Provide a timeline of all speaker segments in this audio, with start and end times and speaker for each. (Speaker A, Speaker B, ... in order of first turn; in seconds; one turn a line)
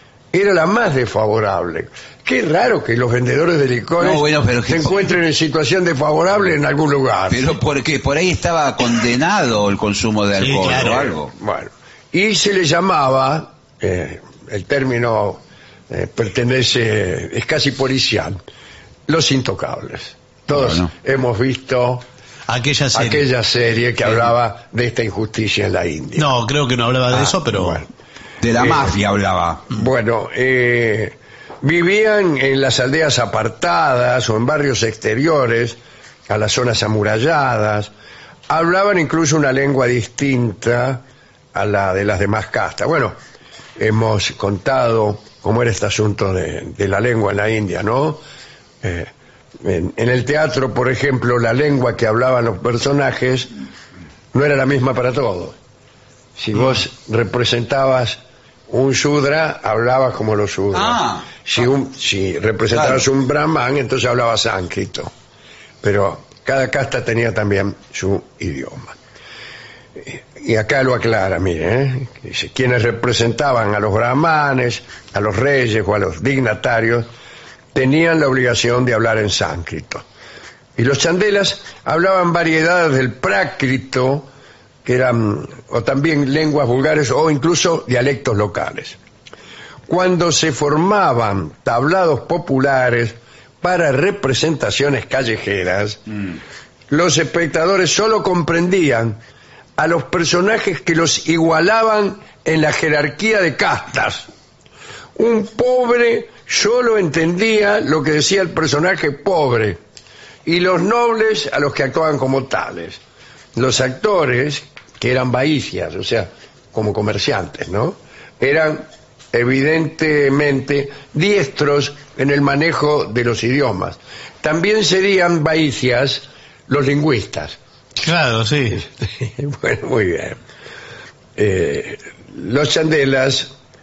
Speaker A: 0.3-7.5
Speaker B: 4.0-5.1
Speaker B: 7.3-11.3
Speaker C: 10.4-11.1
Speaker A: 11.3-18.4
Speaker A: 19.1-22.1
Speaker B: 20.5-20.9
Speaker C: 22.5-23.3
Speaker A: 22.9-26.3
Speaker C: 26.2-27.8
Speaker A: 27.1-27.9
Speaker B: 28.4-29.7
Speaker A: 28.6-28.9
Speaker A: 29.7-37.9
Speaker A: 38.5-41.0
Speaker A: 41.5-43.2
Speaker A: 43.8-48.2
Speaker A: 48.8-53.5
Speaker A: 54.3-55.6
Speaker A: 56.4-65.1
Speaker B: 60.7-61.3
Speaker B: 62.7-63.0
Speaker A: 65.8-69.0
Speaker A: 70.0-77.1
Speaker A: 77.7-80.0
Speaker A: 80.8-84.3
Speaker A: 84.8-89.0
Speaker A: 89.9-96.0
Speaker A: 96.9-99.2
Speaker A: 99.8-104.3
Speaker A: 105.2-109.8
Speaker A: 110.5-113.0
Speaker A: 113.5-127.5
Speaker C: 128.0-128.8
Speaker A: 128.8-130.4
Speaker A: 131.4-133.5